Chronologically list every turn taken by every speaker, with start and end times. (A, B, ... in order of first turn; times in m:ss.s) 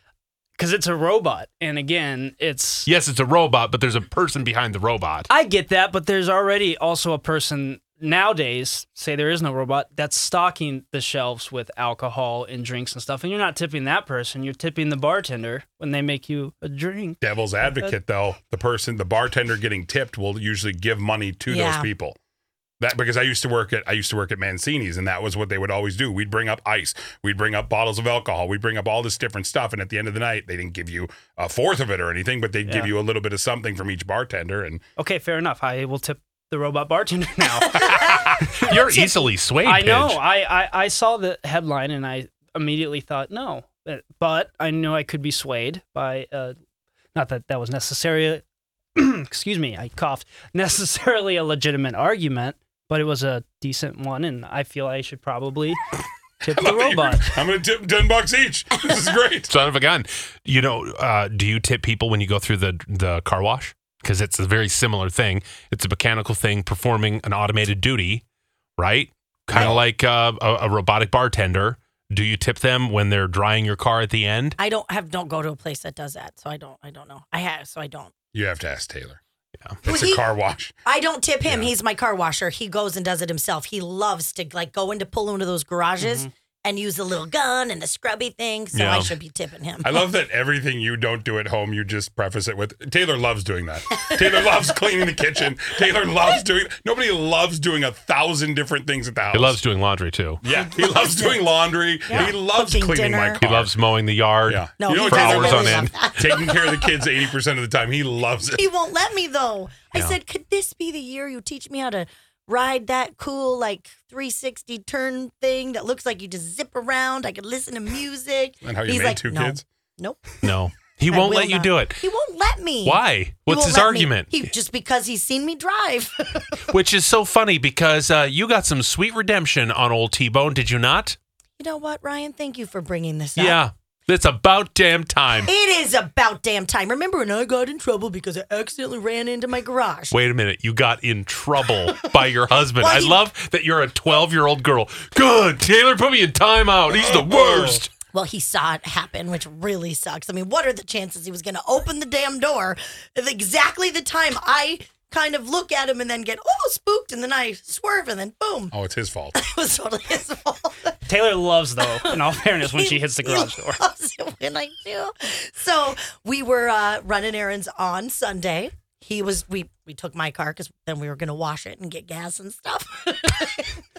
0:00.6-0:02.9 A
0:02.9-0:05.3 B
0:05.3-0:17.2 A
0:17.2-0:22.2 C
0:21.5-0:21.9 D
0:22.8-0:34.8 C
0:32.6-0:32.9 A
0:35.0-0:38.0 A
0:37.8-0:39.2 D
0:37.9-0:40.2 B
0:39.6-0:46.5 A
0:47.1-0:48.4 A
0:49.0-0:55.8 A
0:56.4-0:57.3 A
0:56.4-0:59.5 C
0:59.5-1:08.2 B
1:08.8-1:14.6 B
1:09.5-1:09.8 C
1:14.6-1:18.1 D
1:18.3-1:19.2 C
1:19.8-1:20.7 C
1:19.8-1:20.2 D
1:20.8-1:30.0 D
1:26.0-1:26.3 A
1:28.7-1:29.1 B
1:29.8-1:39.6 C
1:33.9-1:34.5 D
1:39.3-1:40.4 B
1:40.4-1:43.7 C
1:40.5-1:41.4 D
1:42.1-1:43.4 D
1:42.1-1:42.4 B
1:43.4-1:45.9 B
1:44.4-1:48.6 C
1:44.8-1:47.0 D
1:48.5-2:00.5 D
1:58.6-1:59.6 C
2:00.4-2:02.0 B
2:01.1-2:06.6 D
2:02.8-2:04.4 B
2:06.7-2:11.2 B
2:11.6-2:13.6 D
2:13.4-2:15.5 B
2:15.5-2:20.1 D
2:20.1-2:27.9 B
2:22.8-2:23.2 D
2:26.9-2:27.8 C
2:28.1-2:38.7 D
2:38.7-2:39.4 C
2:39.4-2:41.0 D
2:41.1-2:43.8 A
2:41.8-2:53.7 D